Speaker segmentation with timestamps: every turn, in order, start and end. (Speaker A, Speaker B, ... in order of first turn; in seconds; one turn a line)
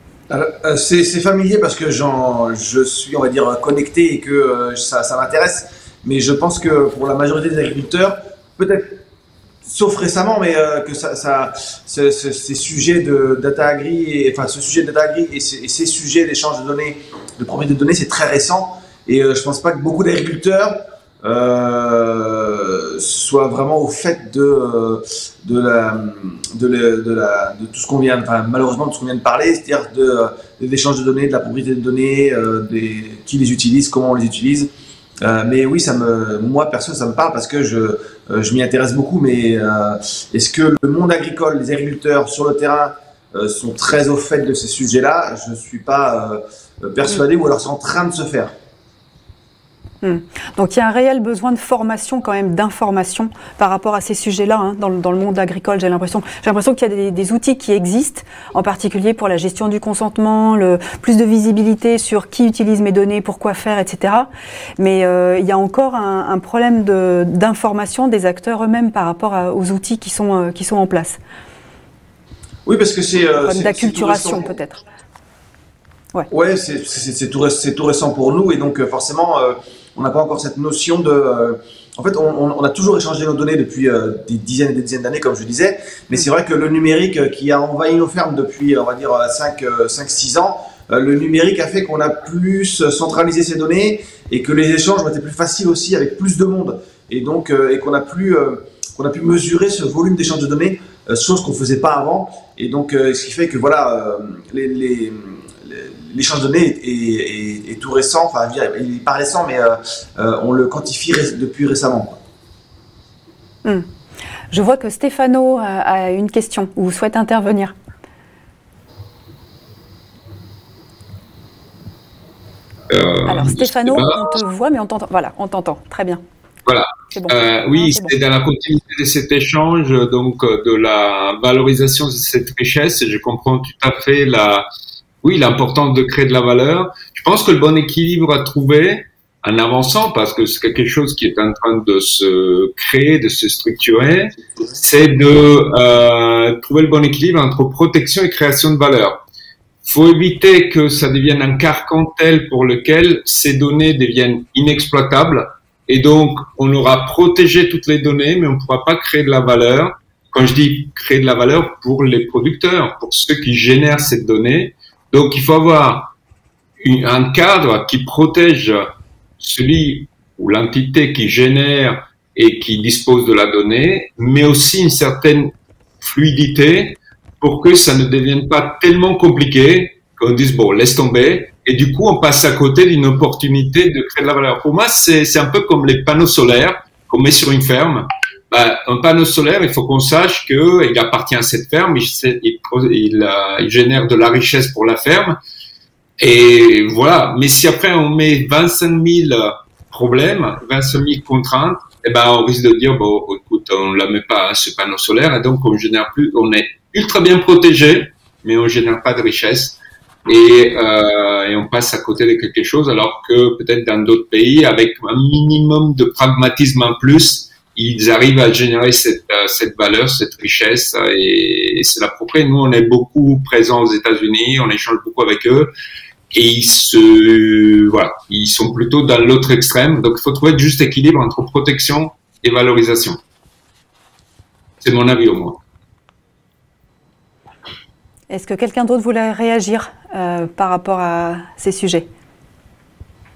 Speaker A: 0.3-9.0
Speaker A: 9.6-34.7
Speaker A: 35.2-48.5
Speaker B: 50.0-71.2
Speaker A: 72.7-74.5
Speaker B: 73.5-74.8
Speaker A: 76.3-112.2
Speaker B: 114.5-117.8
Speaker C: 122.9-124.4
Speaker B: 123.3-126.2
Speaker C: 126.7-134.7
Speaker B: 127.1-128.1
Speaker C: 135.2-149.2
Speaker C: 149.8-166.1
Speaker C: 166.8-168.9
Speaker C: 169.4-195.4
Speaker C: 196.2-225.7
Speaker C: 226.3-233.2
Speaker C: 234.8-235.6
Speaker B: 238.3-242.1